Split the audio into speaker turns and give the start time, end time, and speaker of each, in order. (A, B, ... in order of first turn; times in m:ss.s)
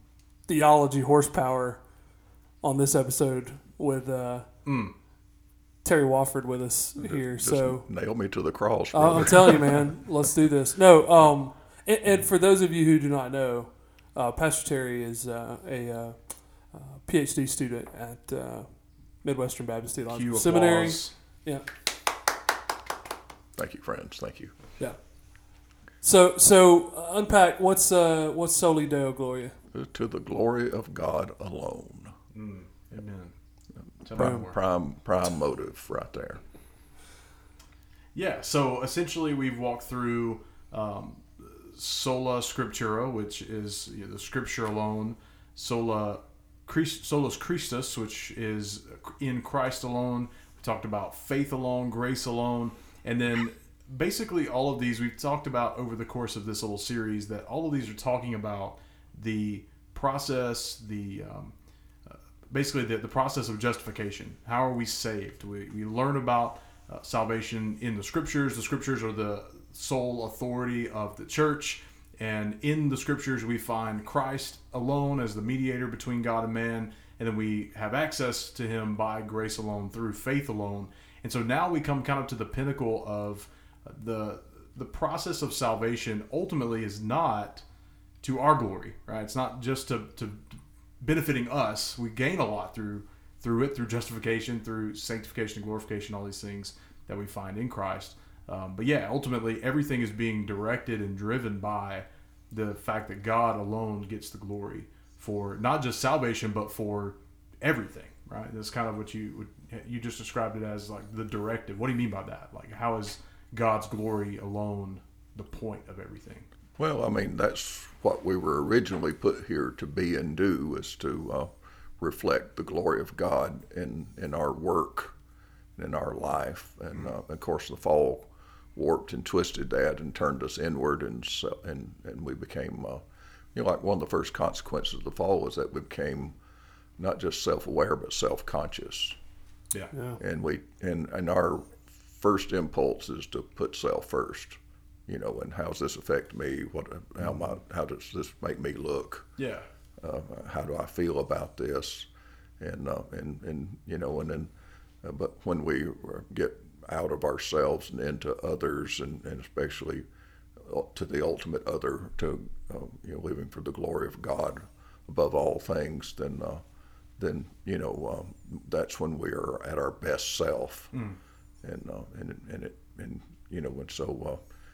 0:00.5-0:01.8 A
0:02.6-0:04.5 A
0:04.6-0:04.9 B
0:05.8-0:07.9 A
0:07.0-0:10.0 C
0:08.9-0:18.7 A
0:19.2-0:21.7 A
0:20.1-0:21.1 B
0:23.6-0:24.6 C
0:26.0-0:29.6 A
0:29.7-0:32.2 C
0:32.3-0:33.3 B
0:34.0-0:34.6 B
0:34.1-0:36.4 C
0:34.2-0:34.4 A
0:38.1-1:01.5 B
1:02.1-1:27.6 B
1:28.2-1:56.5 B
1:56.8-2:05.1 C
2:05.8-2:16.4 C
2:17.0-2:19.2 C
2:19.9-2:20.2 A
2:20.2-2:29.3 C
2:29.4-2:29.7 B
2:30.0-2:32.1 C
2:32.6-2:34.5 C
2:35.0-2:40.0 C
2:40.6-2:46.6 C
2:47.2-2:50.9 C
2:50.9-2:51.2 B
2:51.6-2:54.4 C